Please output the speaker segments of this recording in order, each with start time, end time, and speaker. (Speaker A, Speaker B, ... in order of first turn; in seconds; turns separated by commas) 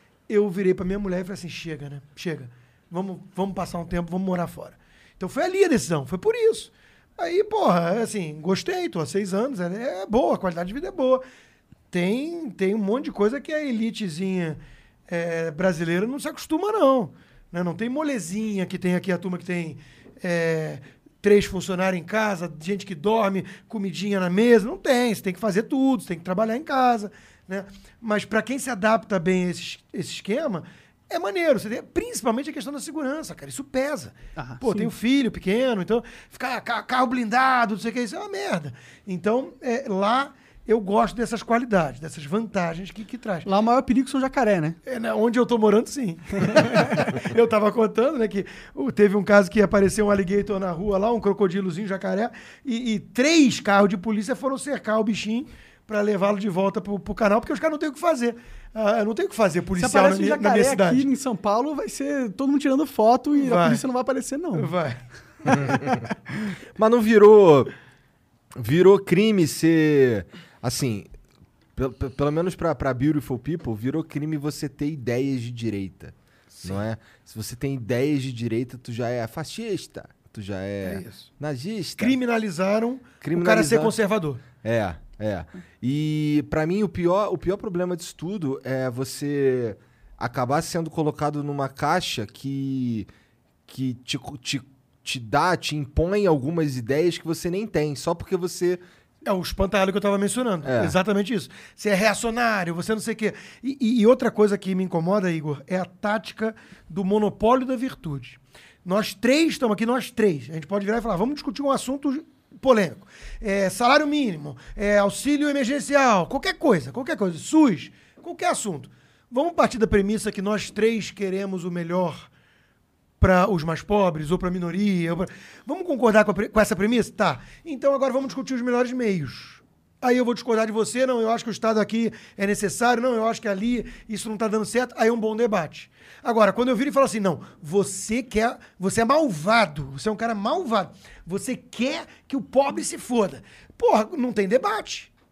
Speaker A: 0.3-11.2, Speaker A: 11.9-43.5, Speaker B: 34.4-34.9, Speaker B: 43.4-44.8, Speaker A: 44.9-61.1, Speaker B: 46.4-47.1, Speaker B: 59.8-64.7, Speaker A: 63.4-63.8, Speaker A: 64.5-65.5, Speaker C: 65.5-65.8, Speaker B: 65.7-66.0, Speaker C: 66.8-67.7, Speaker C: 68.5-71.1, Speaker C: 71.8-82.2, Speaker A: 80.8-81.3, Speaker A: 82.0-84.4, Speaker C: 83.2-83.9, Speaker C: 84.6-93.1, Speaker C: 93.7-98.8, Speaker A: 99.2-122.3, Speaker C: 100.6-101.0, Speaker A: 123.2-145.1